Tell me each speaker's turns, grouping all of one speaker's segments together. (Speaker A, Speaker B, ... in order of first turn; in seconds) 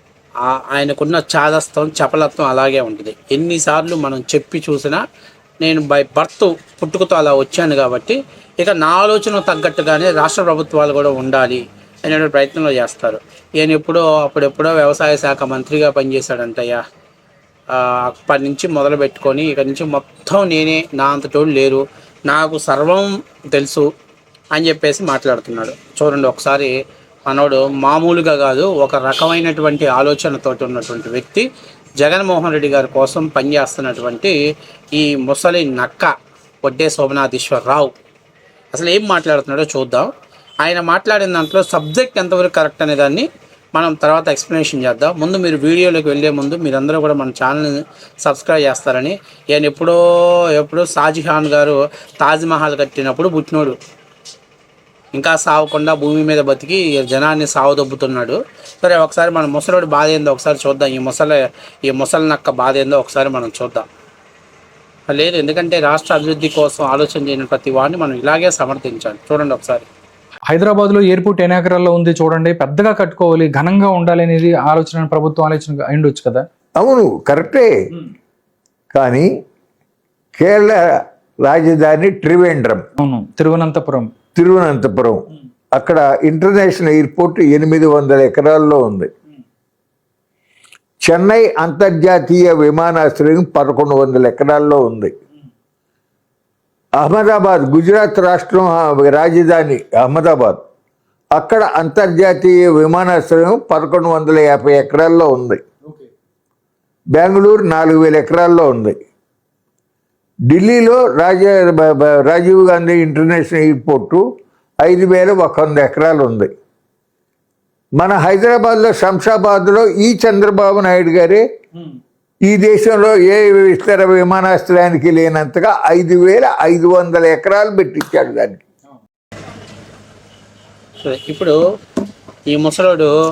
Speaker A: 0.4-5.0, 5.6-16.8, 17.7-23.9, 24.5-26.7, 27.3-31.4, 32.0-34.4, 34.9-37.9, 38.7-40.1, 40.6-53.8, 55.1-63.9, 65.1-69.9, 131.0-131.6, 132.5-133.1
Speaker B: 70.5-76.5, 83.0-84.1
Speaker C: 76.8-77.9, 78.9-79.3, 80.3-82.8, 84.3-89.1, 91.0-95.1, 97.0-100.6, 101.3-105.6, 107.1-109.0, 110.5-114.2, 114.8-116.5, 118.0-121.4, 122.5-128.6